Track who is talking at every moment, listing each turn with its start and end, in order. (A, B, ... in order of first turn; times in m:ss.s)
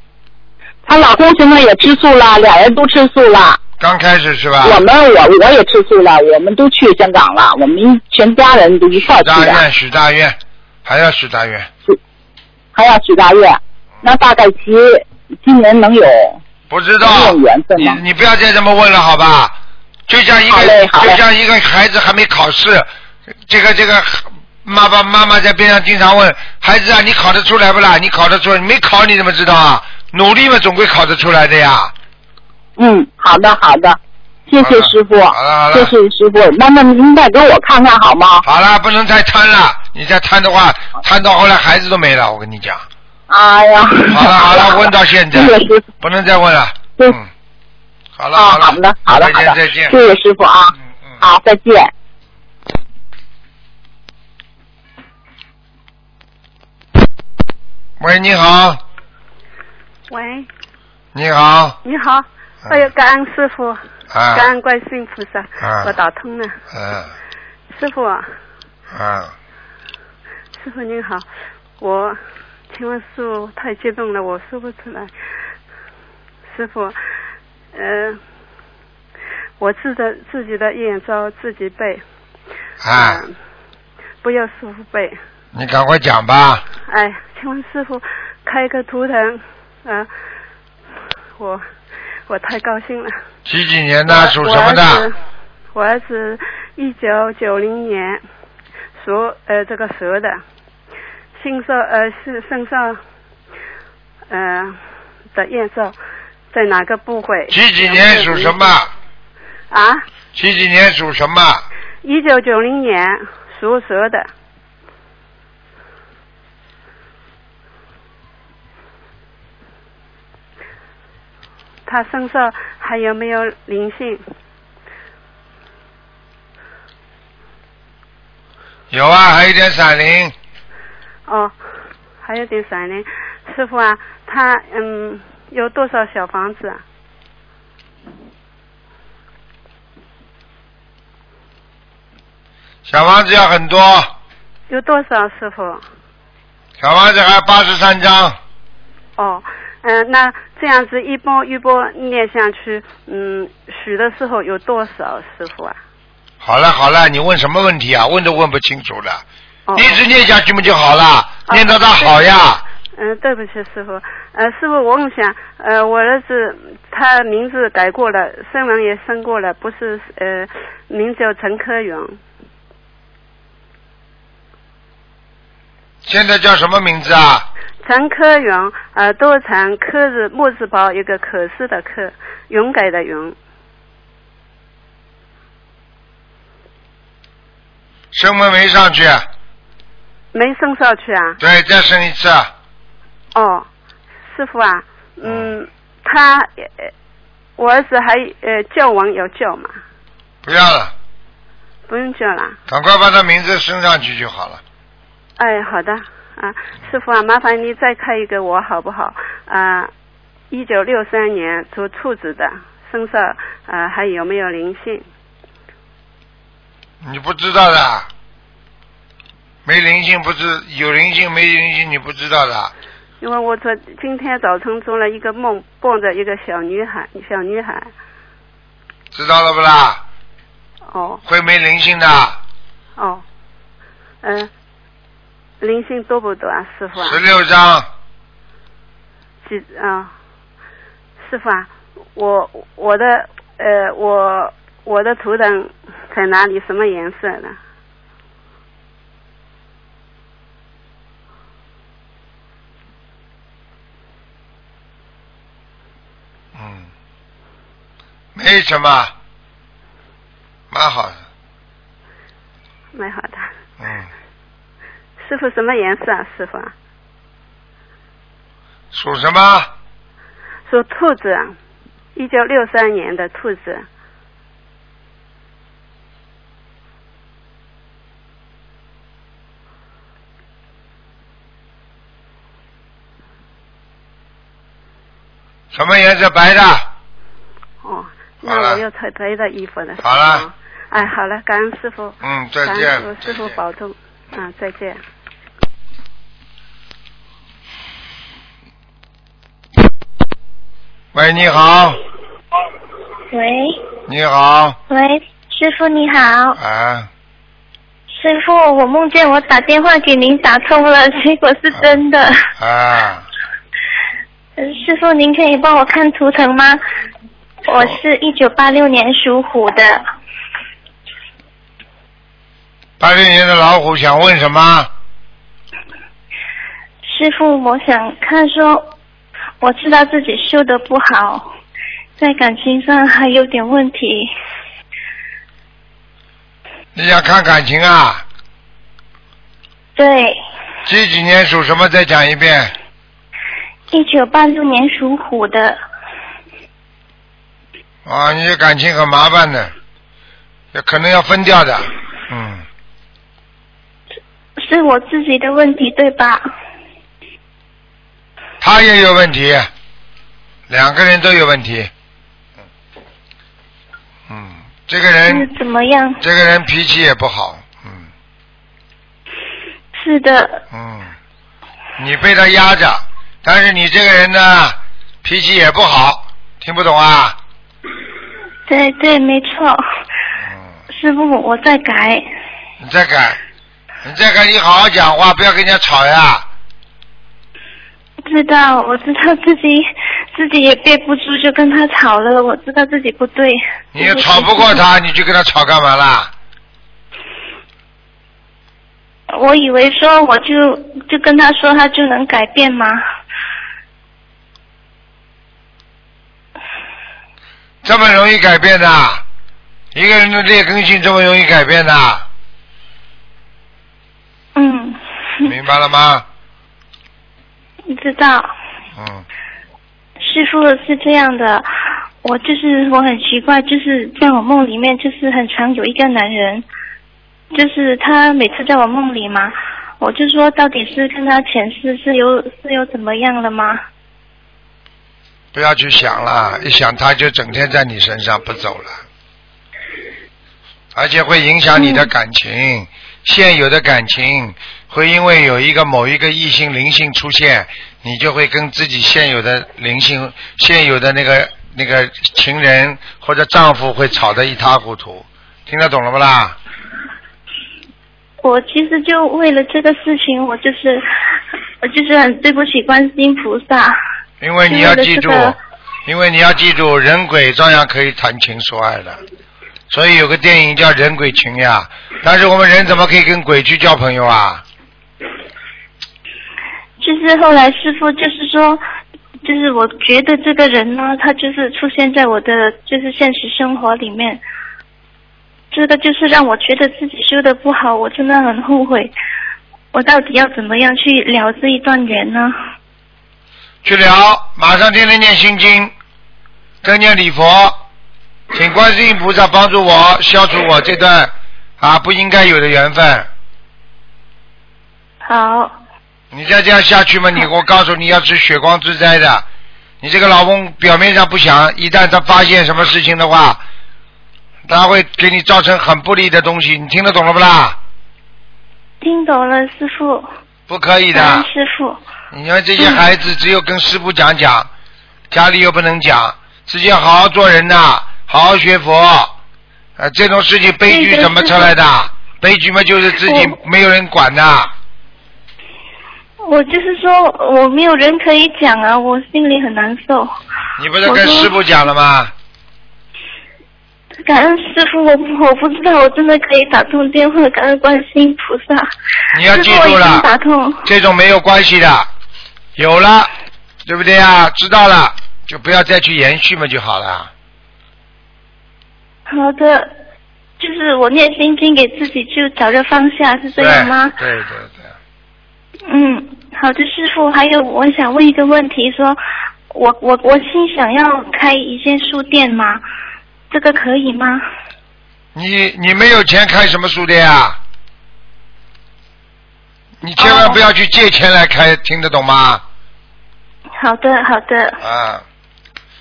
0:00.9-0:03.6 A
0:03.8-0:04.8 B
0:04.6-0:09.6 A
0:09.2-0:11.7 B
0:12.8-0:16.4 A
0:16.7-0:19.6 B
0:17.0-0:18.0 A
0:20.1-0:22.9 B
0:20.5-0:21.2 A
0:23.5-0:31.9 B
0:32.8-0:38.4 A
0:34.6-0:35.9 B
0:38.4-0:42.8 B
0:43.3-0:45.9 A
0:44.1-0:47.3 B
0:48.2-0:50.0 B
0:48.4-0:51.9 A
0:58.0-0:58.8 B
1:00.1-1:00.5 C
1:01.1-1:01.8 B
1:01.8-1:03.8 C
1:04.1-1:04.5 B
1:04.3-1:06.6 C
1:05.6-1:06.0 B
1:06.7-1:07.1 B
1:07.7-1:08.3 C
1:08.9-1:09.3 B
1:10.6-1:11.3 C
1:11.8-1:12.2 C
1:12.7-1:15.1 C
1:16.5-1:17.0 C
1:17.7-1:18.2 C
1:19.6-1:22.0 C
1:22.8-1:23.2 B
1:22.9-1:23.3 C
1:24.2-1:25.2 C
1:25.5-1:26.6 B
1:26.9-1:30.1 C
1:31.4-1:31.7 C
1:32.3-1:33.2 C
1:33.5-1:35.1 B
1:34.1-1:35.2 C
1:35.7-1:38.2 C
1:39.0-1:40.4 C
1:41.4-1:43.0 C
1:44.3-1:44.8 C
1:45.3-1:46.0 C
1:46.5-1:48.7 C
1:47.5-1:48.9 B
1:49.7-1:50.0 C
1:50.3-1:51.6 B
1:52.0-1:54.3 C
2:01.9-2:04.2 C
2:08.9-2:10.3 B
2:11.3-2:11.6 C
2:12.2-2:16.8 C
2:22.9-2:24.1 B
2:24.7-2:25.8 C
2:26.8-2:28.4 B
2:29.2-2:35.8 C
2:36.4-2:39.2 B
2:39.7-2:40.0 C
2:39.8-2:42.6 B
2:41.5-2:42.2 C
2:43.0-2:52.2 C
2:56.0-2:57.5 B
2:57.8-3:03.4 C
3:08.1-3:09.3 B
3:10.3-3:11.4 C
3:11.4-3:12.5 B
3:13.3-3:13.7 C
3:14.3-3:16.9 C
3:15.2-3:15.5 B
3:17.6-3:19.7 C
3:20.4-3:20.9 B
3:21.9-3:22.6 C
3:22.7-3:24.6 B
3:25.4-3:29.9 C
3:30.5-3:35.1 C
3:37.0-3:38.1 B
3:39.7-3:42.7 B
3:43.2-3:47.9 C
3:49.1-3:50.0 B
3:50.9-3:51.2 C
3:51.3-3:52.4 B
3:53.0-3:53.2 C
3:54.2-3:54.5 C
3:55.6-3:57.2 C
3:57.0-3:57.9 B
3:59.4-4:00.1 C
4:01.2-4:07.6 C
4:16.6-4:16.9 B
4:18.4-4:19.1 B
4:20.7-4:21.2 B
4:22.9-4:23.5 C
4:23.8-4:24.1 B
4:25.2-4:26.7 C
4:28.9-4:29.7 B
4:30.7-4:31.6 C
4:32.2-4:33.9 C
4:45.7-4:46.9 B
4:47.8-4:55.0 C
4:48.4-4:48.8 B
4:50.0-4:50.4 B
4:52.2-4:53.5 B
5:01.1-5:02.0 B
5:03.3-5:03.8 D
5:04.1-5:04.8 B
5:04.9-5:06.6 D
5:06.6-5:07.1 B
5:08.1-5:12.5 D
5:12.6-5:13.3 B
5:14.6-5:16.8 D
5:17.6-5:20.0 D
5:23.0-5:24.9 B
5:27.0-5:28.9 D
5:29.6-5:31.5 D
5:32.2-5:34.3 D
5:37.0-5:38.2 B
5:40.0-5:40.4 D
5:40.9-5:42.7 B
5:43.9-5:45.8 D
5:48.1-5:49.7 B
5:50.7-5:52.6 B
5:54.6-5:56.5 D
5:58.6-5:59.7 B
6:00.7-6:01.9 B
6:04.3-6:05.5 B
6:05.3-6:06.2 D
6:06.2-6:08.1 B
6:09.9-6:10.6 D
6:10.7-6:11.1 B
6:12.0-6:17.4 B
6:18.7-6:19.8 D
6:20.9-6:22.2 D
6:22.8-6:23.4 B
6:24.0-6:26.5 B
6:28.2-6:34.8 D
6:33.9-6:36.3 B
6:39.3-6:43.0 D
6:47.8-6:49.2 B
6:49.9-6:52.3 B
6:54.6-6:55.5 D
6:55.4-6:56.2 B
6:57.9-6:58.5 D
6:59.0-6:59.2 B
7:00.2-7:01.7 D
7:02.2-7:06.6 D
7:07.5-7:13.8 D
7:15.5-7:19.0 B
7:20.9-7:36.6 B
7:21.8-7:22.1 D
7:38.4-7:41.1 D
7:41.8-7:44.0 D
7:44.4-7:49.2 B
7:44.7-7:45.6 D
7:49.9-7:54.6 B
7:57.0-7:58.8 D
7:59.4-8:04.4 D
8:05.7-8:09.1 D
8:09.9-8:12.6 D
8:13.8-8:15.9 B
8:16.8-8:17.8 B
8:18.5-8:23.3 B
8:25.2-8:25.7 D
8:26.3-8:29.4 B
8:30.0-8:33.6 B
8:34.7-8:37.8 B
8:39.0-8:40.3 D
8:40.7-8:41.5 B
8:41.1-8:42.0 D
8:42.3-8:44.7 B
8:42.8-8:43.0 D
8:45.3-8:49.3 B
8:50.0-8:54.7 B
8:50.8-8:51.8 D
8:53.2-8:53.6 D
8:56.4-9:00.3 D
9:00.8-9:02.3 B
9:01.0-9:01.5 D
9:04.2-9:10.9 D
9:09.3-9:10.3 B
9:10.8-9:12.1 B
9:12.8-9:13.3 B
9:13.9-9:17.3 B
9:19.3-9:19.9 D
9:20.6-9:24.2 D
9:23.6-9:25.0 B
9:25.9-9:32.8 D
9:33.5-9:34.4 D
9:35.4-9:37.6 B
9:40.0-9:42.6 B
9:40.2-9:40.6 D
9:43.8-9:44.8 D
9:44.8-9:45.2 B